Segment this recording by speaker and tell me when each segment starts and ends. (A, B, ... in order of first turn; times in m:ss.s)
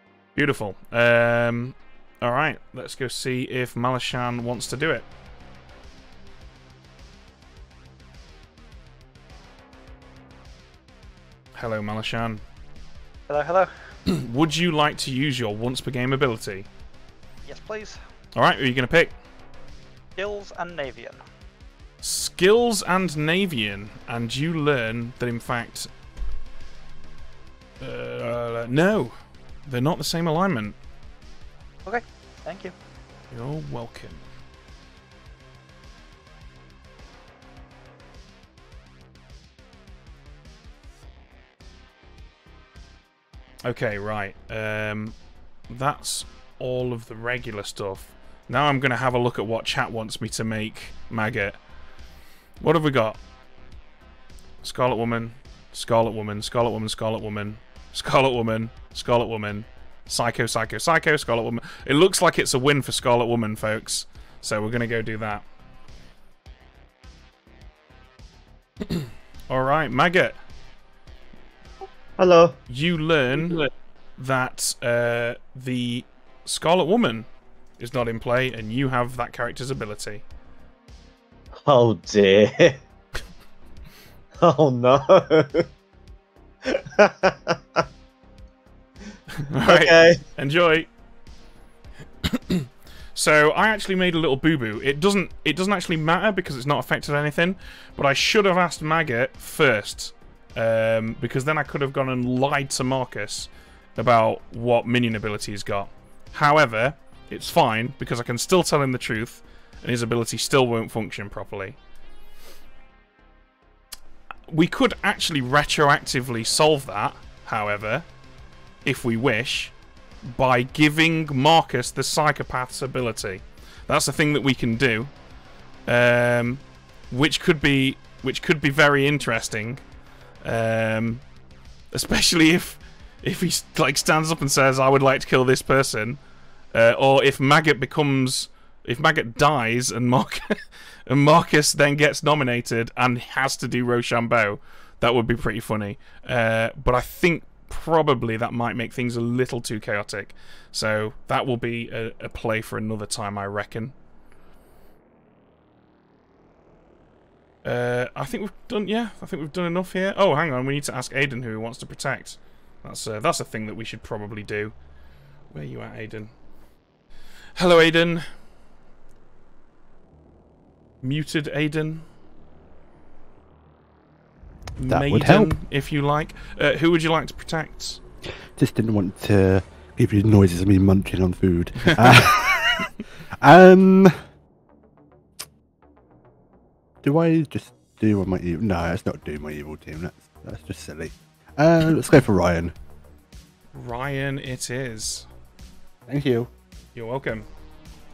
0:00.4-0:05.0 A
0:11.5-0:12.4 A
0:13.3-0:13.7 B
0:14.1-0:16.7 A
0:17.4-0:18.0 B
0:18.4-0:19.2 A
0:20.2-0:21.2 B
0:22.0-0:25.9 A
0:27.8-0:30.8 A
0:31.9-0:32.7 B
0:33.3-0:34.2 A
0:43.6-0:45.2 A
0:45.7-0:51.6 A
0:52.6-0:53.2 A
0:54.6-1:05.4 A
1:08.9-1:10.4 A
1:12.2-1:12.6 C
1:12.7-1:17.3 A
1:17.8-1:20.2 A
1:21.6-1:22.8 C
1:24.4-1:25.7 C
1:26.6-1:27.8 C
1:29.4-1:30.9 A
1:29.6-1:30.2 C
1:32.3-1:51.8 A
1:54.5-1:58.1 A
1:58.8-1:59.8 A
2:00.3-2:05.1 A
2:05.9-2:09.9 A
2:10.4-2:11.2 A
2:11.9-2:16.2 A
2:16.7-2:33.9 A
2:37.6-2:44.8 A
2:45.5-2:46.3 A
2:47.6-2:48.3 A
2:51.0-2:52.1 A
2:54.8-2:58.0 A
2:54.9-2:55.6 D
2:58.5-3:04.2 D
3:07.0-3:12.7 D
3:13.7-3:15.3 A
3:16.1-3:16.5 D
3:16.9-3:17.4 A